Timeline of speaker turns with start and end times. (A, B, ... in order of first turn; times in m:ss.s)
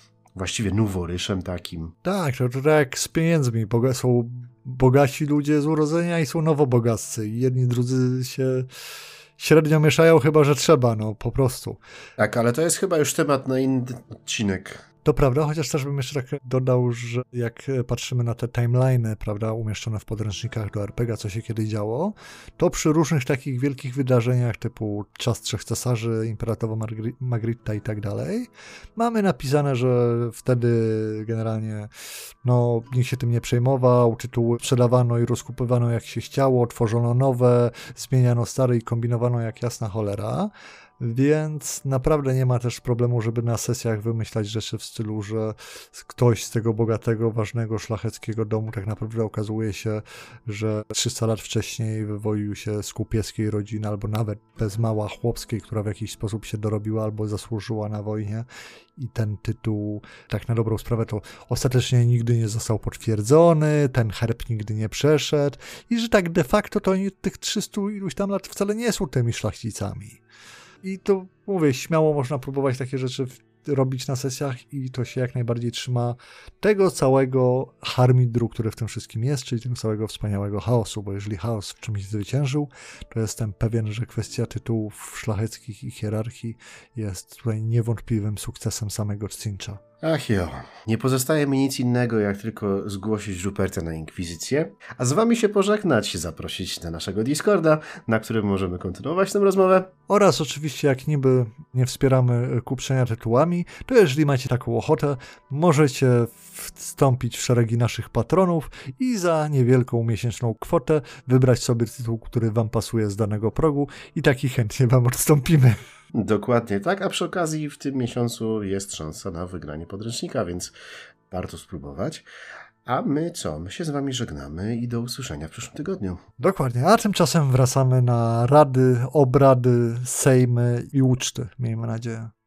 0:00.4-0:02.0 A
0:02.0-0:08.7 B
0:09.4-0:11.8 B
0:12.2-0:14.8 A
0:15.0-0:31.9 B
0:32.4-1:10.2 B
1:10.8-1:29.8 B
1:30.0-1:39.9 A
1:40.1-1:55.8 B
1:56.1-2:00.7 A
2:01.3-2:02.2 A
2:02.9-2:06.2 A
2:06.4-2:12.3 B